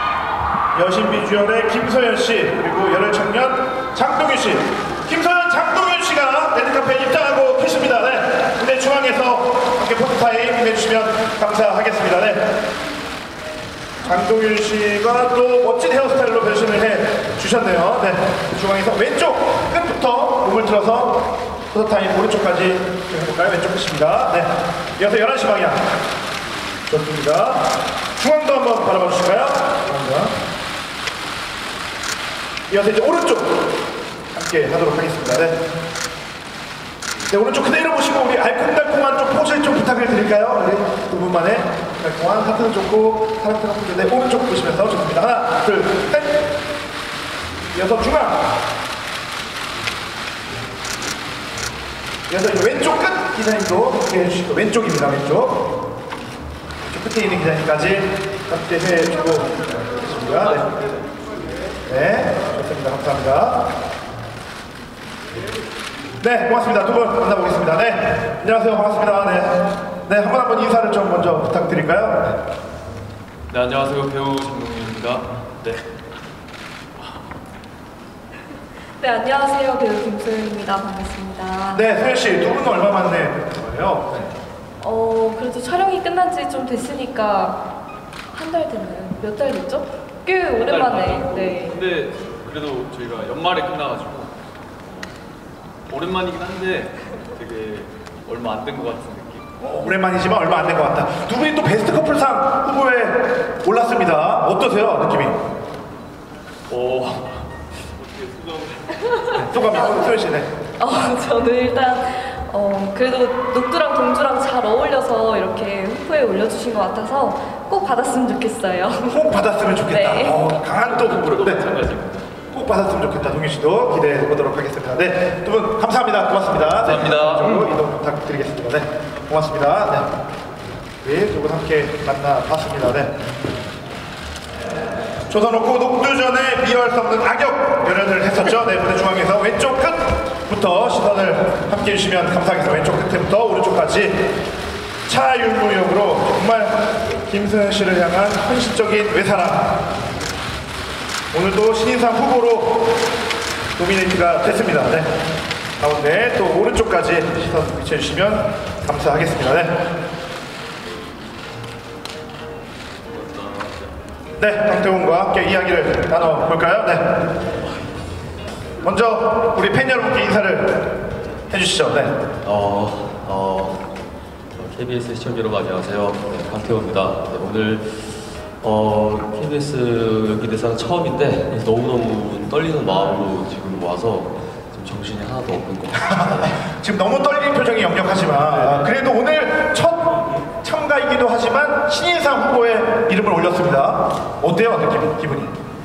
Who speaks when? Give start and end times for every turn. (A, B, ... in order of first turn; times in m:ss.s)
0:00.7-0:12.4 A
0:14.0-0:25.8 A
0:26.9-0:30.3 A
0:32.7-0:33.6 A
0:34.3-0:35.6 A
0:37.3-0:46.4 A
0:47.7-0:48.4 A
0:52.3-0:55.6 A
0:56.8-1:00.7 A
1:01.9-1:03.7 A
1:06.2-1:12.4 A
1:13.5-1:15.8 B
1:14.2-1:15.0 C
1:19.0-1:21.8 D
1:21.7-1:24.3 A
1:24.8-1:27.6 D
1:28.3-1:31.8 D
1:30.6-1:34.3 C
1:32.6-1:34.2 B
1:35.9-1:39.4 C
1:36.1-1:36.8 B
1:37.4-1:37.8 B
1:38.3-1:39.4 B
1:39.6-1:45.4 A
1:46.7-1:47.2 B
1:46.8-1:47.2 C
1:48.0-1:49.4 C
1:49.4-1:50.5 A
1:49.8-1:50.1 D
1:50.8-2:00.6 D
1:59.1-2:01.7 A
2:00.8-2:02.3 B
2:02.5-2:10.1 A
2:06.9-2:07.5 B
2:11.0-2:13.2 A
2:15.3-2:24.2 A
2:25.1-2:29.7 A
2:31.3-2:32.8 A
2:33.8-2:35.1 A
2:35.8-2:39.8 A
2:43.2-2:43.8 B
2:44.4-2:47.2 A
2:48.8-2:50.9 A
2:51.5-2:52.2 A
2:52.4-2:53.8 B
2:54.6-3:06.6 B
3:06.0-3:15.5 A